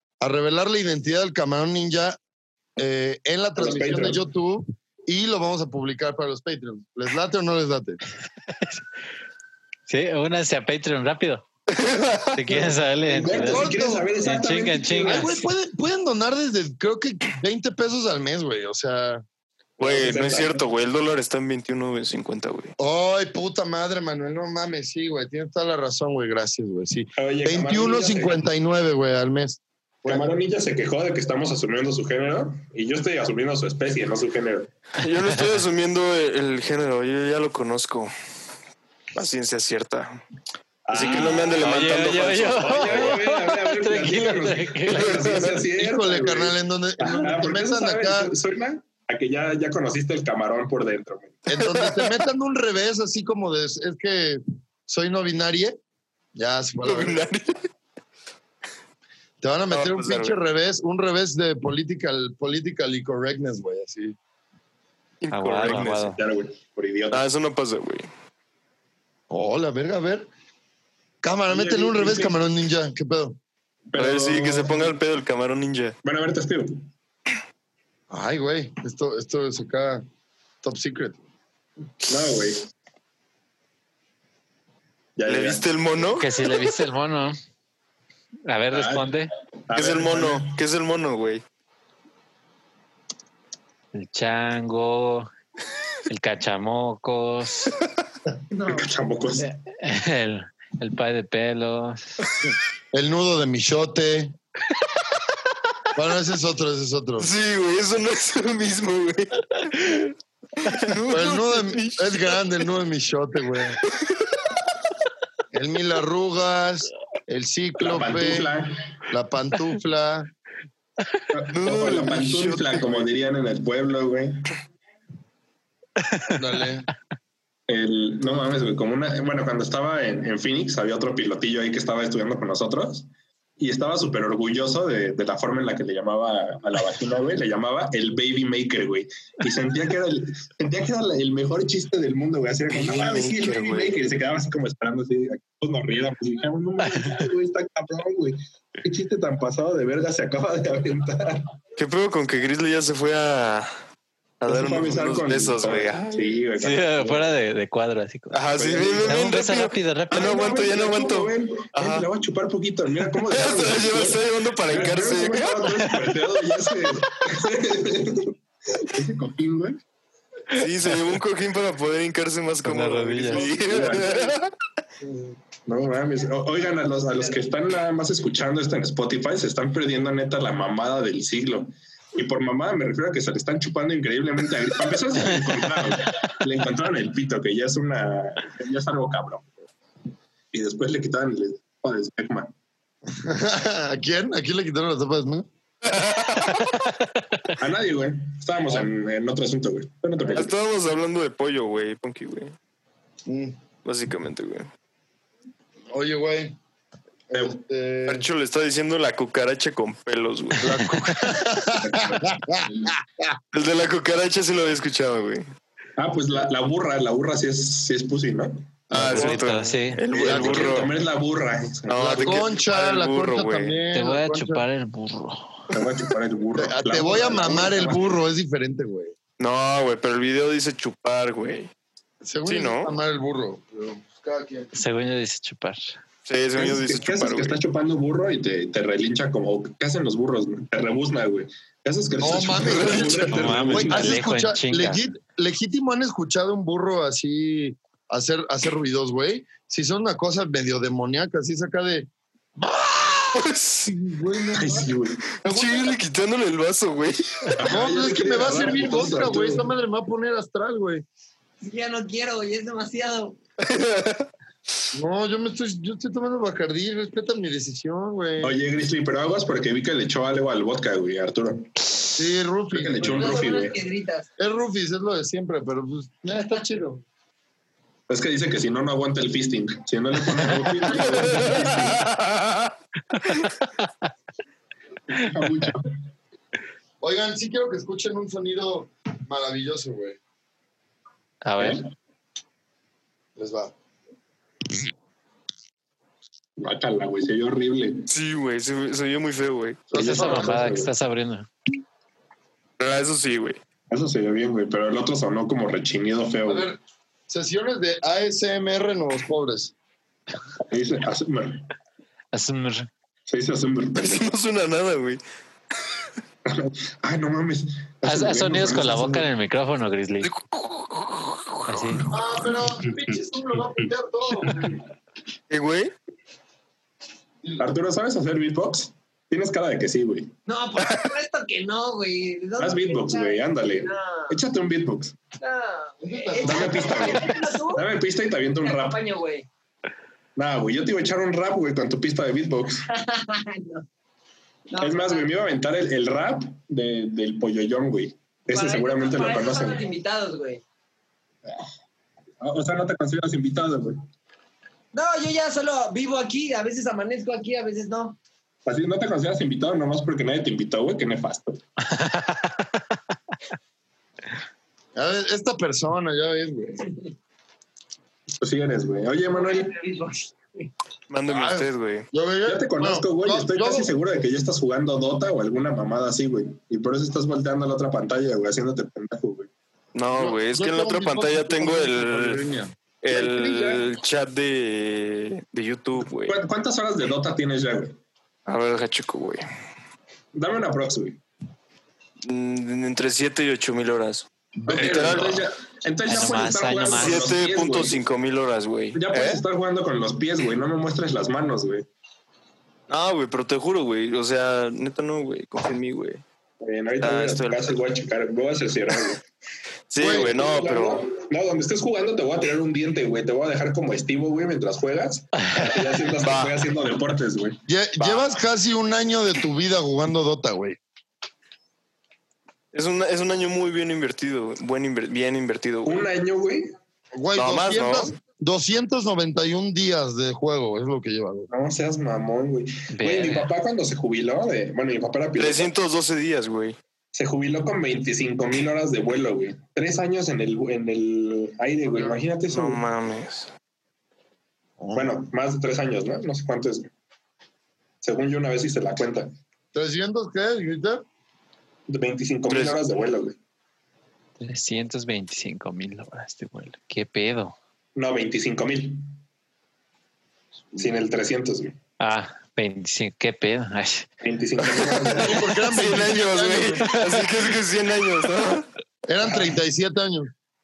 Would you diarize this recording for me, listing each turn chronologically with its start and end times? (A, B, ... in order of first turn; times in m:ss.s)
0:00.2-0:02.2 A
0:02.8-0:08.0 A
0:03.6-0:04.2 B
0:09.9-0:11.4 C
0:11.7-0:12.6 D
0:12.3-0:15.4 C
0:13.0-0:15.4 B
0:13.4-0:14.1 A
0:15.0-0:19.2 A
0:19.8-0:22.7 D
0:19.8-0:20.6 B
0:22.8-0:30.3 A
0:27.2-0:28.4 B
0:30.0-0:34.7 B
0:35.0-0:38.1 D
0:39.1-0:40.2 D
0:40.9-0:41.8 B
0:40.9-0:43.2 D
0:41.0-0:45.5 C
0:42.5-0:51.4 B
0:45.0-0:45.5 D
0:45.7-0:48.3 A
0:51.5-0:55.8 A
0:51.5-0:52.2 D
0:56.3-0:57.2 A
0:56.8-0:57.6 D
0:59.4-1:04.2 A
0:59.7-1:00.4 D
1:05.2-1:06.2 D
1:05.3-1:06.2 C
1:05.6-1:07.2 B
1:07.1-1:08.1 D
1:09.3-1:10.3 A
1:11.2-1:13.4 A
1:11.5-1:12.4 B
1:13.9-1:15.0 B
1:14.0-1:15.9 D
1:16.0-1:16.8 B
1:18.1-1:20.0 A
1:20.6-1:21.2 A
1:22.1-1:22.6 B
1:25.2-1:25.6 B
1:25.3-1:26.3 D
1:26.2-1:27.4 C
1:28.5-1:29.3 C
1:28.7-1:29.1 B
1:29.7-1:30.5 B
1:29.7-1:31.4 D
1:33.9-1:35.3 C
1:36.1-1:37.8 C
1:38.5-1:38.8 E
1:38.6-1:39.5 B
1:39.4-1:42.1 C
1:42.9-1:44.3 A
1:45.9-1:47.3 A
1:47.2-1:52.4 D
1:51.1-1:53.8 A
1:53.9-1:54.4 D
1:55.5-1:58.5 A
1:57.8-1:58.9 B
1:59.1-2:00.3 A
2:01.3-2:04.5 B
2:01.5-2:03.0 D
2:06.3-2:06.9 A
2:07.7-2:13.1 B
2:13.6-2:31.5 B
2:22.7-2:24.0 D
2:31.8-2:33.7 D
2:34.4-2:36.3 D
2:34.4-2:37.3 B
2:36.6-2:38.4 C
2:38.3-2:42.1 D
2:38.6-2:39.1 B
2:39.0-2:40.4 C
2:40.1-2:49.8 B
2:43.3-2:45.9 D
2:50.5-2:54.5 D
2:52.6-2:53.5 C
2:53.3-2:54.3 B
2:55.6-3:09.5 B
3:10.5-3:12.5 B
3:13.1-3:15.5 A
3:15.9-3:16.7 D
3:16.8-3:17.4 C
3:17.5-3:20.5 B
3:20.3-3:22.5 D
3:23.2-3:23.6 A
3:23.8-3:24.7 D
3:25.9-3:26.6 A
3:27.3-3:28.2 A
3:28.1-3:31.1 D
3:30.6-3:33.4 A
3:31.7-3:32.9 B
3:33.5-3:35.4 D
3:36.0-3:38.6 B
3:38.9-3:39.4 A
3:38.9-3:40.9 D
3:39.0-3:40.0 C
3:40.1-3:42.4 B
3:40.1-3:40.8 A
3:41.9-3:43.8 D
3:42.0-3:44.6 A
3:43.9-3:45.7 C
3:45.7-3:48.0 B
3:46.5-3:49.2 A
3:49.4-3:51.7 D
3:52.2-3:54.7 A
3:52.4-3:52.9 D
3:54.7-3:56.0 C
3:56.2-3:57.6 D
3:56.6-4:04.2 B
4:02.2-4:14.9 A
4:02.5-4:03.3 D
4:03.2-4:05.0 C
4:13.3-4:13.9 D
4:14.5-4:15.2 B
4:15.4-4:17.6 D
4:15.4-4:16.0 A
4:17.5-4:19.7 B
4:17.6-4:21.0 A
4:21.6-4:23.4 E
4:23.6-4:24.3 D
4:24.9-4:28.6 A
4:28.4-4:31.7 B
4:32.2-4:33.4 A
4:32.7-4:33.8 B
4:33.0-4:34.3 E
4:34.4-4:37.0 A
4:38.1-4:42.0 B
4:40.8-4:41.9 A
4:41.1-4:42.0 D
4:45.1-4:45.9 B
4:47.0-4:50.2 A
4:51.4-4:51.8 C
4:51.6-4:51.8 B
4:53.4-4:53.7 A
4:56.6-4:58.1 B
4:58.1-4:59.9 D
4:59.9-5:00.8 A
4:59.9-5:01.5 C
4:59.9-5:00.9 B
5:02.8-5:03.6 D
5:03.9-5:06.7 B
5:06.4-5:06.8 A
5:07.3-5:09.7 A
5:10.7-5:11.6 B
5:12.3-5:12.9 C
5:13.3-5:14.3 B
5:14.0-5:15.2 D
5:16.4-5:19.3 B
5:18.0-5:20.3 C
5:20.2-5:22.1 D
5:21.7-5:22.0 C
5:22.1-5:24.8 A
5:22.8-5:23.2 B
5:24.4-5:24.7 B
5:25.5-5:25.9 D
5:27.6-5:30.3 B
5:30.5-5:34.4 E
5:32.6-5:35.2 B
5:35.4-5:37.8 E
5:36.0-5:37.3 A
5:36.4-5:39.0 B
5:38.6-5:39.4 E
5:40.4-5:42.8 B
5:42.9-5:43.8 E
5:44.7-5:45.3 E
5:44.8-5:49.8 B
5:48.5-5:50.6 E
5:52.4-5:54.0 B
5:54.9-5:58.2 E
5:58.6-6:01.6 B
6:01.9-6:02.6 C
6:04.9-6:06.9 A
6:08.4-6:09.7 B
6:09.3-6:10.7 E
6:11.1-6:12.1 D
6:11.3-6:13.9 A
6:12.4-6:19.5 B
6:19.9-6:22.4 D
6:20.2-6:22.7 A
6:23.0-6:26.4 D
6:23.1-6:23.8 B
6:26.2-6:28.0 B
6:28.5-6:29.4 D
6:30.3-6:31.2 B
6:32.2-6:35.5 D
6:34.6-6:35.2 A
6:34.6-6:38.0 B
6:36.1-6:37.3 C
6:36.9-6:39.4 D
6:38.9-6:41.8 B
6:42.9-6:46.2 D
6:46.6-6:49.2 B
6:47.0-6:47.7 D
6:49.9-6:51.1 D
6:50.0-6:50.3 A
6:50.0-6:58.3 B
6:56.2-6:56.6 D
6:57.7-7:00.8 A
7:02.7-7:06.0 D
7:05.8-7:06.7 B
7:07.1-7:11.5 A
7:07.4-7:08.1 D
7:11.5-7:15.7 B
7:12.9-7:13.5 C
7:15.4-7:16.8 D
7:17.1-7:22.8 B
7:22.5-7:23.5 D
7:24.8-7:25.1 A
7:24.9-7:26.9 B
7:28.0-7:29.3 B
7:29.7-7:31.0 A
7:31.9-7:33.4 B
7:32.5-7:32.8 D
7:34.4-7:37.6 C
7:38.0-7:39.1 B
7:40.7-7:41.8 B
7:42.0-7:44.1 C
7:44.2-7:45.4 B
7:45.0-7:48.7 D
7:45.2-7:46.9 A
7:49.1-7:50.3 A
7:49.2-7:49.5 B